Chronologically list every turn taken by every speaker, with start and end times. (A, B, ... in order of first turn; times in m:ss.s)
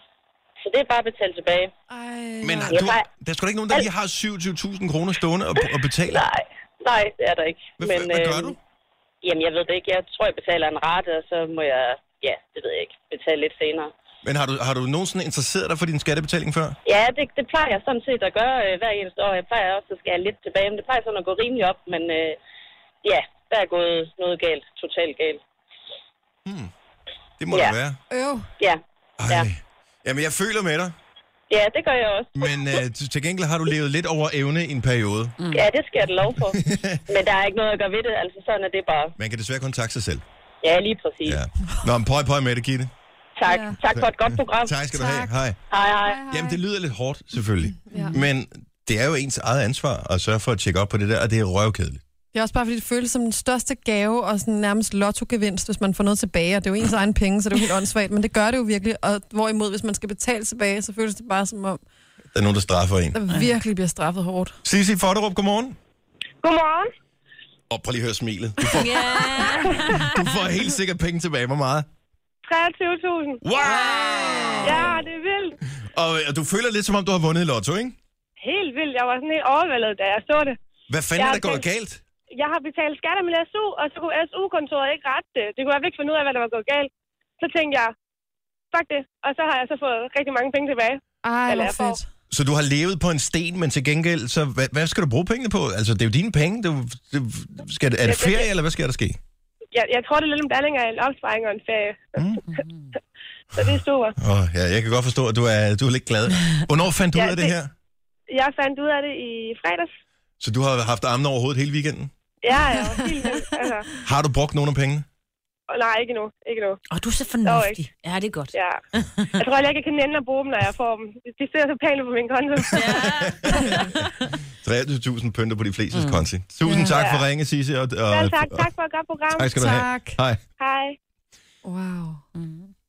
0:00.6-0:01.7 A
0:01.9-0:02.9 B
0:02.4-0:06.3 C
0:02.7-0:03.1 A
0:06.1-0:08.6 A
0:07.8-0:08.6 C
0:09.2-0:13.9 A
0:14.2-0:16.8 C
0:16.9-0:22.4 A
0:23.0-0:25.4 A
0:26.4-0:26.7 C
0:27.4-0:28.0 C
0:28.1-0:28.5 B
0:28.6-0:29.5 A
0:29.2-0:31.0 C
0:31.5-0:32.4 A
0:32.4-0:35.4 C
0:35.4-0:35.7 D
0:35.5-0:39.1 A
0:36.5-0:37.0 C
0:39.2-0:40.2 C
0:40.6-0:41.4 A
0:41.2-0:42.9 C
0:43.4-0:44.8 A
0:43.4-0:43.8 B
0:43.8-0:45.6 C
0:44.9-0:45.3 B
0:45.7-0:46.3 A
0:46.0-0:46.6 B
0:46.3-0:52.0 C
0:47.9-0:48.2 B
0:52.3-1:01.8 B
1:02.3-1:03.2 C
1:03.1-1:04.6 B
1:04.6-1:05.8 C
1:06.4-1:06.9 E
1:07.7-1:11.9 C
1:08.7-1:10.3 D
1:12.4-1:13.8 E
1:13.4-1:15.0 C
1:14.0-1:14.6 D
1:14.6-1:15.6 E
1:15.8-1:18.0 C
1:18.4-1:20.6 E
1:20.9-1:22.0 C
1:21.2-1:21.6 E
1:22.4-1:27.9 E
1:28.7-1:32.0 E
1:31.2-1:32.1 B
1:32.3-1:39.2 C
1:38.0-1:38.5 E
1:39.7-1:42.2 E
1:42.2-1:42.4 C
1:42.5-1:42.9 D
1:43.6-1:44.1 E
1:44.2-1:47.7 C
1:47.1-1:47.5 E
1:48.3-1:50.0 E
1:50.4-1:52.1 C
1:52.4-1:53.9 E
1:52.7-1:53.7 B
1:54.0-1:55.1 C
1:55.7-1:56.8 E
1:56.9-1:59.4 D
1:57.4-1:57.8 E
1:58.5-1:58.8 E
1:59.4-2:03.3 E
2:02.7-2:04.0 D
2:02.8-2:04.0 C
2:04.6-2:08.7 C
2:05.9-2:06.2 D
2:06.6-2:07.0 B
2:06.9-2:07.2 E
2:08.1-2:09.5 E
2:09.3-2:10.4 C
2:09.6-2:10.2 B
2:10.6-2:11.0 E
2:11.6-2:12.2 B
2:12.4-2:12.7 D